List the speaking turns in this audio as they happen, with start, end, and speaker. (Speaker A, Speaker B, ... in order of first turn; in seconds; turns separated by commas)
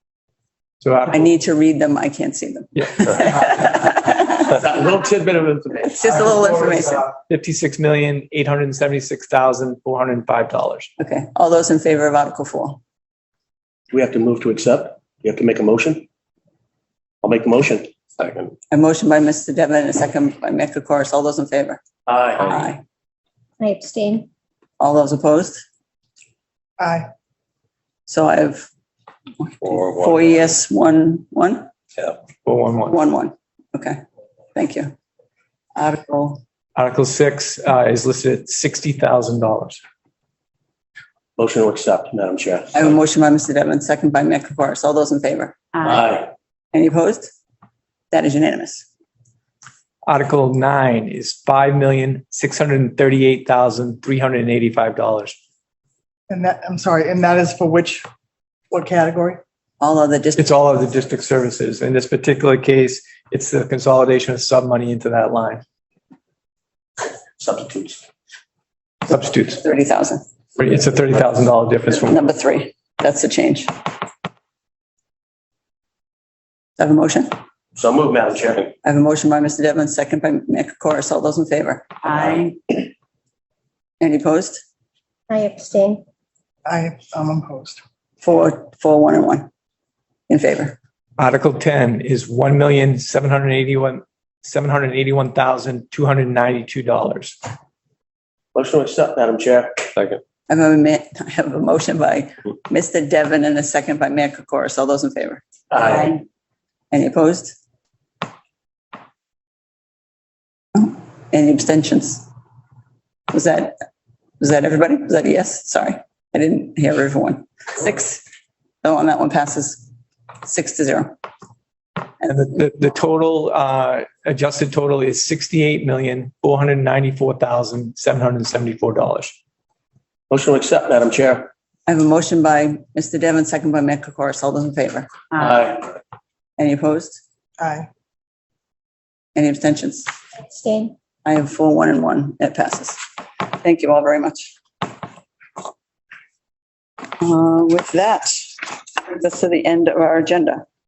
Speaker A: 0.8-1.3, Speaker B: 1.1-4.6, Speaker C: 4.5-5.9, Speaker B: 5.8-7.1, Speaker A: 7.1-10.9, Speaker B: 11.0-12.8, Speaker C: 13.9-16.1, Speaker C: 17.2-18.5, Speaker B: 18.7-21.8, Speaker C: 22.1-22.7, Speaker B: 22.4-22.8, Speaker D: 23.6-24.3, Speaker B: 24.8-25.6, Speaker E: 26.8-27.1, Speaker B: 28.1-28.7, Speaker B: 29.4-31.7, Speaker A: 32.4-32.9, Speaker B: 32.9-34.0, Speaker B: 34.5-34.9, Speaker B: 35.8-36.4, Speaker A: 36.8-39.8, Speaker C: 41.4-43.0, Speaker B: 42.7-45.6, Speaker C: 45.8-46.3, Speaker B: 46.7-47.3, Speaker B: 48.1-48.9, Speaker A: 50.0-55.4, Speaker E: 56.3-58.0, Speaker E: 58.7-59.4, Speaker B: 59.8-60.5, Speaker A: 60.4-65.6, Speaker C: 67.4-68.0, Speaker A: 69.1-69.6, Speaker B: 69.5-70.2, Speaker A: 70.6-72.2, Speaker B: 71.9-73.7, Speaker B: 76.8-77.3, Speaker C: 77.8-78.7, Speaker B: 78.8-82.5, Speaker B: 84.0-84.6, Speaker D: 85.3-86.0, Speaker E: 86.7-87.8, Speaker B: 88.2-89.5, Speaker B: 90.3-90.8, Speaker A: 91.2-97.4, Speaker C: 98.5-100.2, Speaker B: 100.5-106.2, Speaker C: 105.7-106.2, Speaker B: 106.9-107.5, Speaker B: 110.7-112.3, Speaker B: 113.3-113.8, Speaker B: 114.4-118.2, Speaker B: 118.8-119.9, Speaker B: 120.4-121.2, Speaker A: 122.2-129.3, Speaker C: 130.3-131.5, Speaker B: 131.9-135.1, Speaker C: 135.3-135.9, Speaker B: 136.6-137.2, Speaker E: 137.6-137.9, Speaker B: 139.3-140.1, Speaker D: 140.5-140.9, Speaker B: 141.2-144.6, Speaker B: 147.2-150.6